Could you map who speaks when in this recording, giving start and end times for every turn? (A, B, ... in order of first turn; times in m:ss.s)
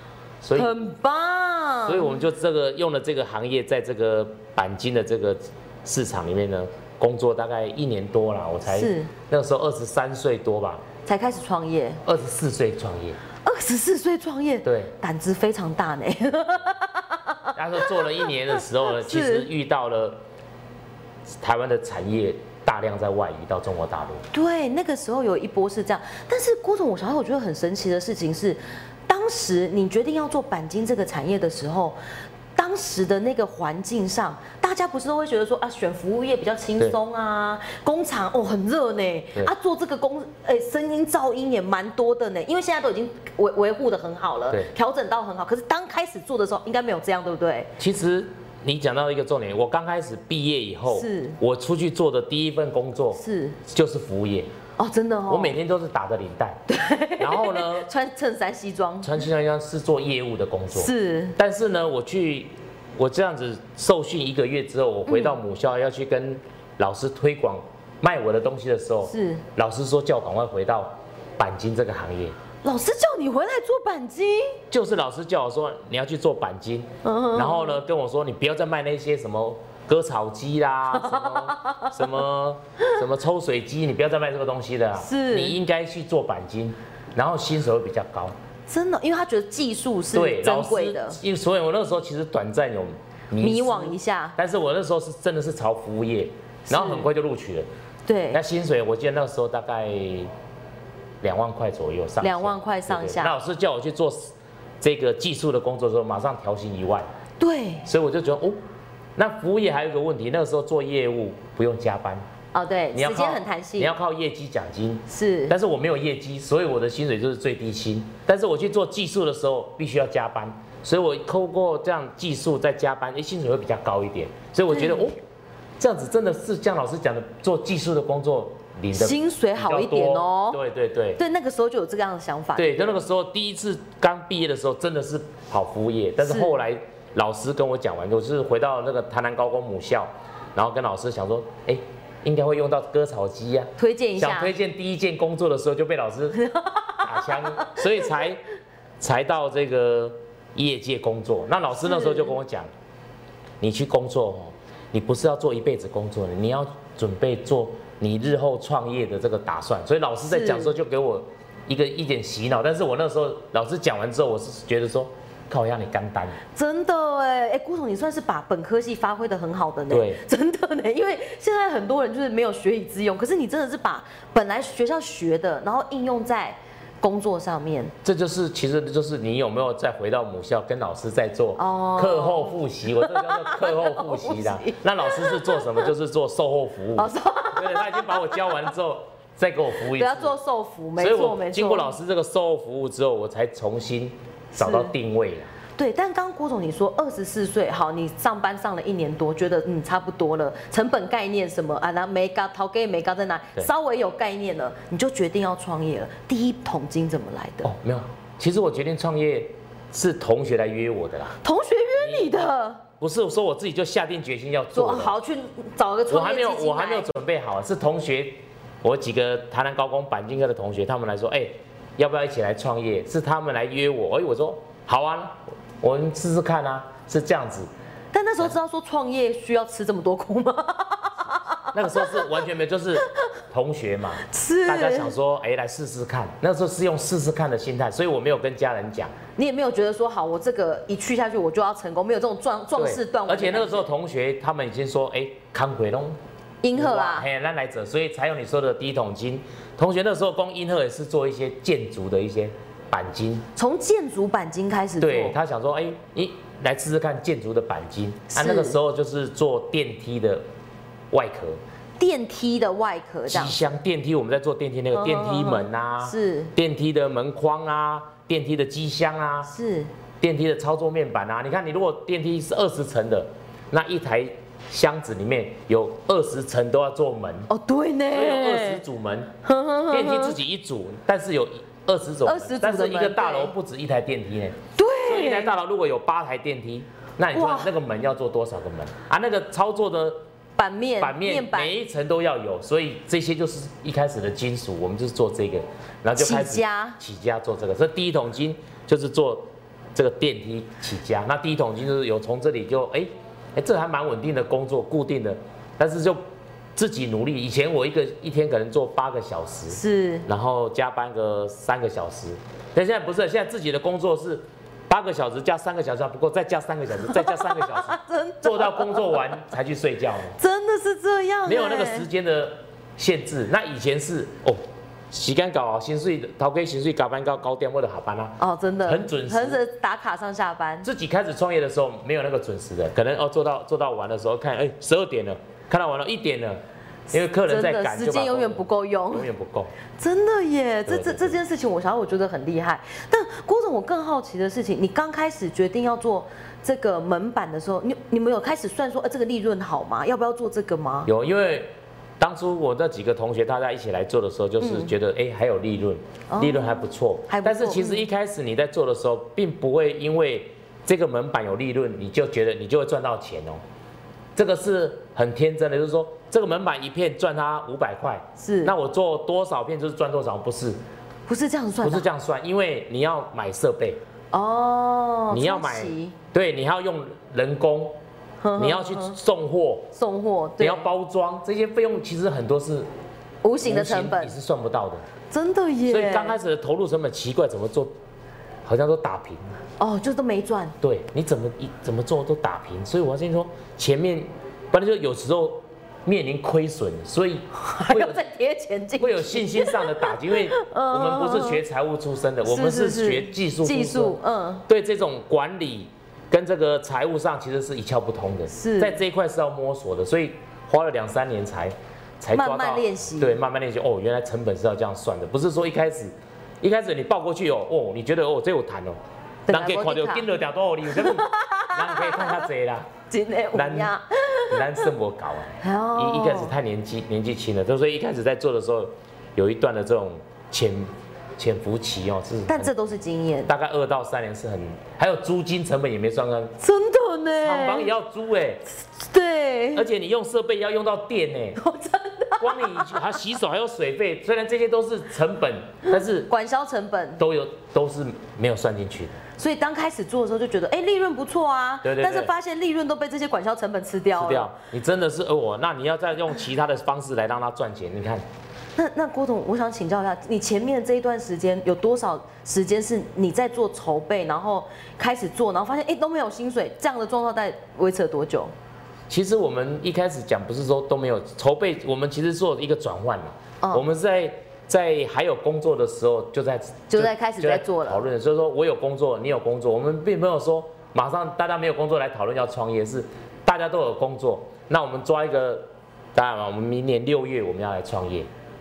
0:00.4-0:00.7 A
0:00.5-0:02.2 B
0:01.8-0:10.8 A
0:08.6-0:09.1 B
0:11.0-0:12.0 B
0:12.0-0:13.2 A
0:13.4-0:19.5 B
0:14.6-0:14.9 A
0:17.5-0:20.2 A
0:21.4-0:24.2 A
0:24.3-0:32.0 B
0:32.6-0:47.7 B
0:47.8-0:54.5 A
0:50.9-0:51.4 B
0:53.1-0:53.6 B
0:54.8-0:55.6 B
0:55.3-0:56.6 A
0:56.7-0:59.2 B
0:57.2-0:57.9 A
0:59.0-1:12.4 A
1:00.7-1:01.4 B
1:05.1-1:05.4 B
1:09.0-1:09.4 B
1:12.6-1:14.6 B
1:14.7-1:28.3 A
1:17.0-1:17.8 B
1:20.9-1:21.9 B
1:25.0-1:25.6 B
1:28.7-1:31.2 B
1:30.1-1:37.7 A
1:33.4-1:34.4 B
1:36.7-1:37.1 B
1:38.0-1:38.4 B
1:38.3-1:40.3 A
1:41.2-1:47.1 A
1:42.2-1:43.3 B
1:47.4-1:47.9 B
1:47.8-1:48.6 A
1:49.2-1:52.2 A
1:52.5-1:53.9 B
1:52.9-2:05.2 A
1:55.1-1:55.5 B
2:04.7-2:05.0 B
2:05.8-2:11.2 A
2:08.9-2:10.6 B
2:11.2-2:13.0 B
2:12.6-2:26.4 A
2:16.2-2:16.6 B
2:23.8-2:24.5 B
2:26.3-2:28.1 B
2:27.0-2:28.4 A
2:29.0-2:32.7 A
2:31.8-2:32.3 B
2:33.6-2:46.4 A
2:40.2-2:40.7 B
2:46.5-2:57.9 B
2:49.9-2:50.2 A
2:58.0-3:10.4 A
3:01.6-3:05.9 B
3:07.0-3:08.5 B
3:09.9-3:11.9 B
3:11.0-3:15.5 A
3:14.5-3:14.9 B
3:15.8-3:27.7 B
3:27.6-3:31.4 A
3:31.4-3:32.8 B
3:32.0-3:32.4 A
3:33.0-3:35.1 A
3:34.7-3:37.1 B
3:36.1-3:47.7 A
3:48.1-3:52.3 B
3:51.7-3:59.1 A
3:54.2-3:55.1 B
3:59.4-4:03.9 B
4:02.8-4:06.2 A
4:06.6-4:07.2 B
4:06.7-4:13.5 A
4:13.6-4:15.4 B
4:15.0-4:20.4 A
4:18.3-4:18.8 B
4:21.1-4:21.6 A
4:22.0-4:23.6 B
4:23.3-4:29.5 A
4:24.9-4:26.5 B
4:29.4-4:29.9 B
4:30.2-4:37.5 A
4:37.5-4:38.8 B
4:38.1-4:39.3 A
4:39.4-4:40.4 B
4:39.9-4:50.2 A
4:42.2-4:43.5 B
4:44.8-4:45.5 B
4:47.3-4:47.7 B
4:50.6-4:51.8 B
4:51.0-5:06.2 A
4:56.2-4:57.0 B
5:06.8-5:20.4 A
5:09.7-5:10.3 B
5:17.0-5:19.2 B
5:20.4-5:22.1 B
5:21.4-5:29.6 A
5:28.4-5:30.9 B
5:30.8-5:39.7 A
5:37.4-5:39.3 B
5:40.0-5:51.1 B
5:40.9-5:41.4 A
5:51.0-6:03.6 A
5:54.6-5:54.9 B
5:56.3-5:58.0 B
6:04.4-6:10.8 A
6:08.4-6:08.7 B
6:11.3-6:12.1 B
6:11.8-6:14.0 A
6:14.3-6:16.2 B
6:15.3-6:18.0 A
6:18.4-6:19.2 B
6:18.6-6:19.9 A
6:19.9-6:20.8 B
6:20.6-6:22.9 A
6:23.4-6:24.4 B
6:23.6-6:25.0 A
6:25.3-6:26.4 B
6:25.8-6:27.9 A
6:28.6-6:29.5 A
6:29.8-6:30.7 B
6:30.8-6:38.2 A
6:37.5-6:41.6 B
6:39.0-7:02.9 A
6:42.4-6:44.6 B
6:48.5-6:49.0 B
6:52.3-6:53.4 B
6:59.5-7:00.3 B
7:00.9-7:02.5 B
7:03.1-7:04.8 B
7:03.5-7:03.9 A
7:04.5-7:12.7 A
7:05.6-7:06.5 B
7:12.5-7:13.5 B
7:13.5-7:16.5 A
7:16.6-7:17.9 B
7:17.4-7:18.6 A
7:19.0-7:19.8 B
7:19.7-7:21.6 A
7:21.6-7:23.0 B
7:22.4-7:26.3 A
7:25.9-7:27.2 B
7:27.2-7:29.2 A
7:29.4-7:34.5 B
7:31.8-7:32.3 A
7:34.1-7:38.2 A
7:38.8-7:48.5 B
7:49.1-8:08.3 A
7:56.9-7:58.0 B